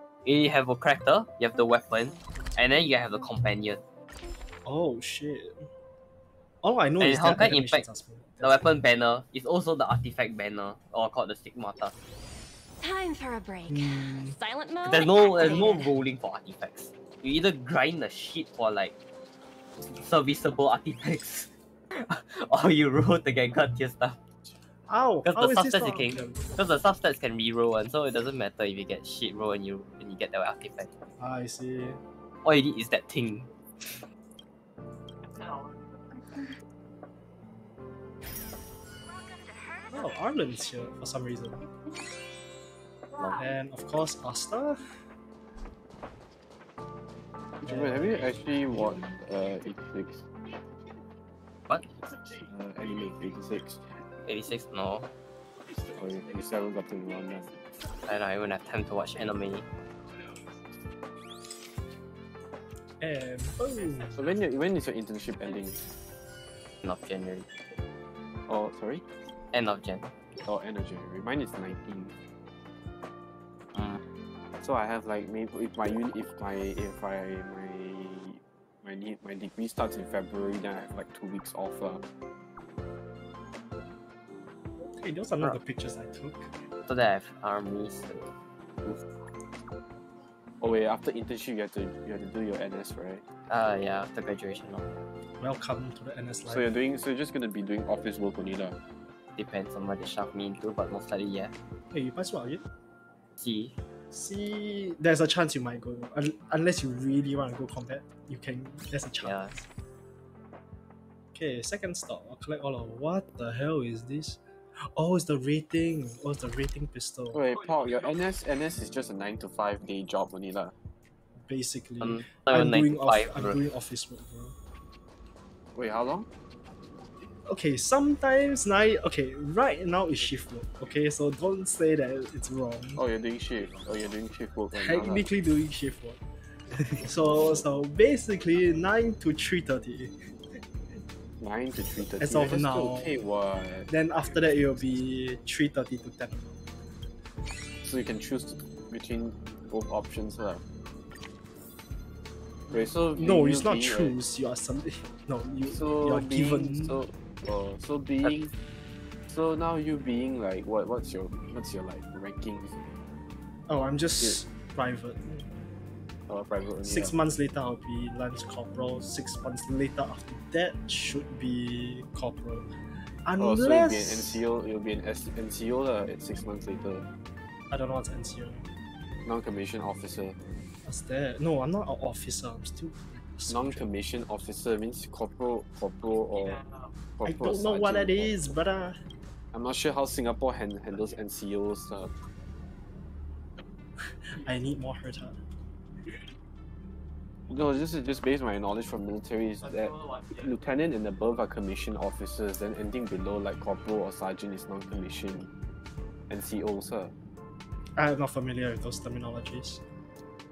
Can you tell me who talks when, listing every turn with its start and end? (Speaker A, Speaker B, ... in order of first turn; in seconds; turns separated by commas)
Speaker A: 0.3-3.8, Speaker B: 4.7-5.7, Speaker B: 6.6-8.7, Speaker A: 7.0-7.8, Speaker A: 8.4-12.0, Speaker C: 12.8-15.9, Speaker B: 13.7-14.3, Speaker A: 14.8-18.9, Speaker A: 20.0-24.2, Speaker B: 24.9-26.6, Speaker A: 25.2-30.9, Speaker B: 31.2-32.0, Speaker A: 32.4-34.0, Speaker B: 39.9-41.7, Speaker B: 43.2-44.8, Speaker D: 47.6-50.3, Speaker B: 47.6-49.0, Speaker D: 52.5-53.9, Speaker A: 54.2-55.1, Speaker D: 56.0-57.6, Speaker A: 58.1-59.7, Speaker B: 63.0-64.1, Speaker D: 64.1-65.9, Speaker A: 66.8-67.5, Speaker D: 68.5-69.0, Speaker A: 69.5-70.1, Speaker D: 70.4-72.2, Speaker D: 74.6-82.0, Speaker B: 84.8-86.5, Speaker A: 86.9-88.3, Speaker D: 90.6-93.2, Speaker A: 93.5-95.0, Speaker B: 95.4-96.8, Speaker D: 96.5-98.8, Speaker A: 99.4-101.5, Speaker B: 101.9-102.6, Speaker A: 103.4-103.8, Speaker B: 104.1-109.4, Speaker A: 109.2-109.6, Speaker B: 111.3-114.4, Speaker B: 114.9-117.4, Speaker D: 117.3-120.7, Speaker B: 121.4-124.6, Speaker A: 122.0-123.6, Speaker D: 125.8-126.3, Speaker B: 127.5-133.0, Speaker D: 133.0-135.3, Speaker B: 134.7-136.2, Speaker B: 137.0-140.2, Speaker D: 141.4-144.8, Speaker B: 142.2-143.1, Speaker B: 143.9-146.6, Speaker D: 147.8-150.6, Speaker D: 152.7-154.2, Speaker B: 153.2-157.0, Speaker D: 155.7-158.5, Speaker D: 159.3-162.9, Speaker B: 163.7-165.5, Speaker D: 166.3-167.1, Speaker B: 166.8-172.7, Speaker B: 173.2-174.4, Speaker D: 173.4-177.1, Speaker B: 177.7-178.7, Speaker D: 179.2-180.4, Speaker B: 180.8-183.9, Speaker D: 183.5-186.6, Speaker D: 187.2-188.5, Speaker B: 187.2-189.0, Speaker D: 189.5-192.1, Speaker B: 194.0-195.4, Speaker D: 197.5-205.5, Speaker D: 206.3-207.1, Speaker B: 208.0-209.8